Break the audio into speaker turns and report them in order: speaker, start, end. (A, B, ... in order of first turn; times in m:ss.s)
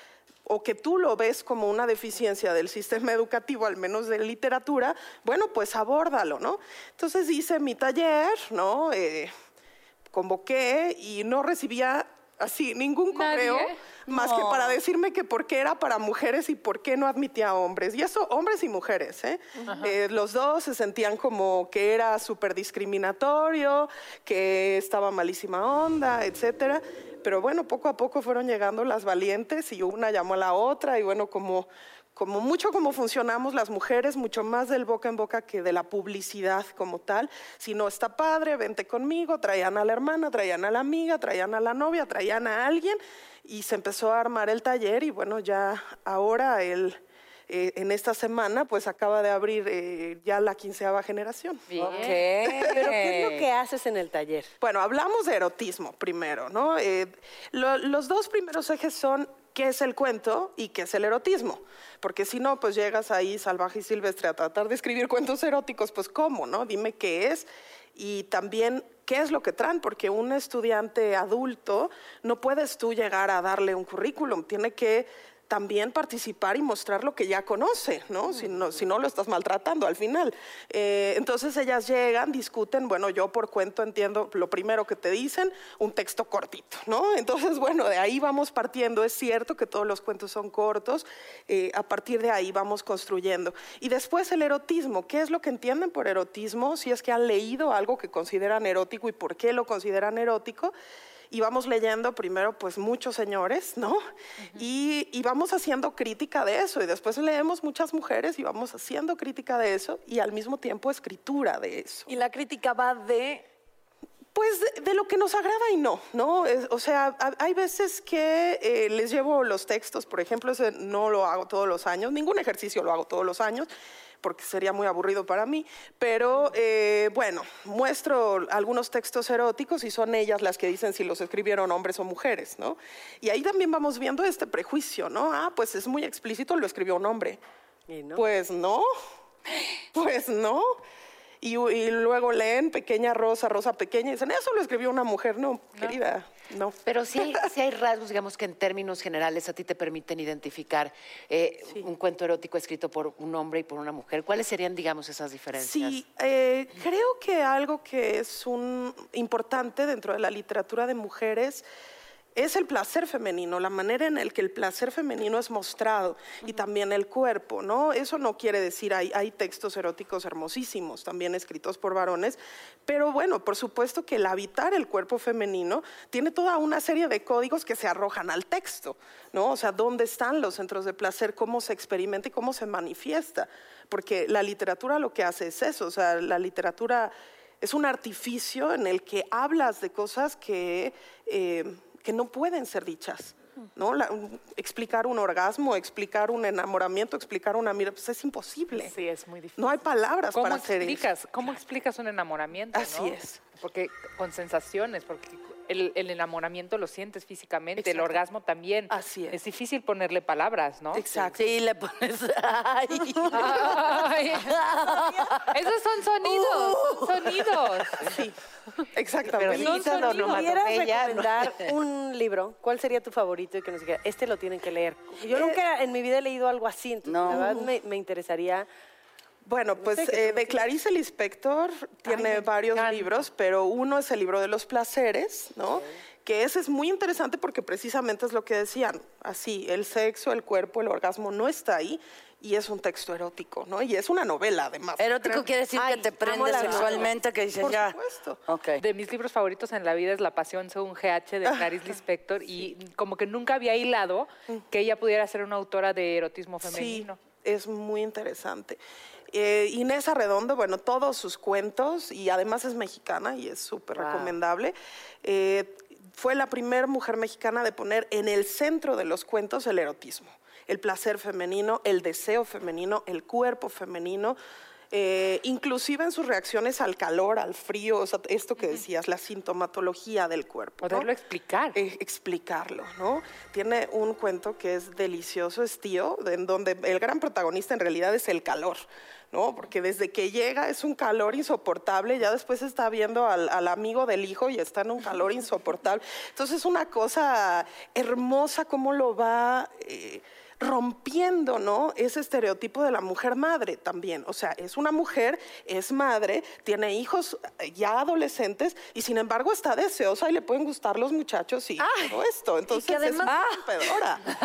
0:00.5-0:09.3 A
0:10.1-0:51.8 A
0:13.1-0:13.8 B
0:14.1-0:14.8 C
0:19.7-0:19.9 B
0:51.7-0:52.2 B
0:51.8-0:54.5 D
0:51.8-0:53.5 C
0:52.4-0:52.9 A
0:54.6-1:40.7 A
1:41.3-1:44.0 A
1:44.6-1:52.1 A
1:52.1-1:53.4 E
1:54.3-2:03.7 A
2:04.2-2:17.4 A
2:17.9-2:18.2 D
2:18.2-2:18.9 A
2:19.9-2:20.8 A
2:21.4-2:27.4 A
2:26.9-2:36.0 F
2:35.6-2:41.6 A
2:42.4-3:18.9 A
3:18.7-3:19.7 B
3:19.6-3:21.1 A
3:20.3-3:31.1 B
3:22.7-3:23.4 A
3:29.0-3:29.3 D
3:30.9-3:31.4 D
3:31.0-3:31.4 A
3:31.3-3:35.6 C
3:33.3-3:34.6 B
3:35.4-3:38.0 B
3:36.2-3:37.7 C
3:38.0-3:38.4 A
3:38.9-3:40.2 A
3:39.4-3:48.7 D
3:39.4-3:41.6 F
3:39.5-3:40.5 B
3:47.0-3:47.7 C
3:47.3-3:47.7 A
3:49.4-4:05.5 A
3:49.8-3:50.6 D
3:52.1-3:53.1 D
3:55.7-3:56.0 D
4:05.0-4:08.0 C
4:05.7-4:07.2 D
4:06.4-4:08.4 A
4:08.5-4:08.8 C
4:08.8-4:17.2 B
4:11.5-4:11.7 A
4:16.6-4:18.8 A
4:19.3-4:34.4 A
4:24.0-4:24.3 D
4:34.9-4:41.1 A
4:40.8-4:41.8 B
4:41.7-4:48.8 A
4:49.3-5:14.2 A
5:11.8-5:12.1 E
5:12.7-5:13.6 E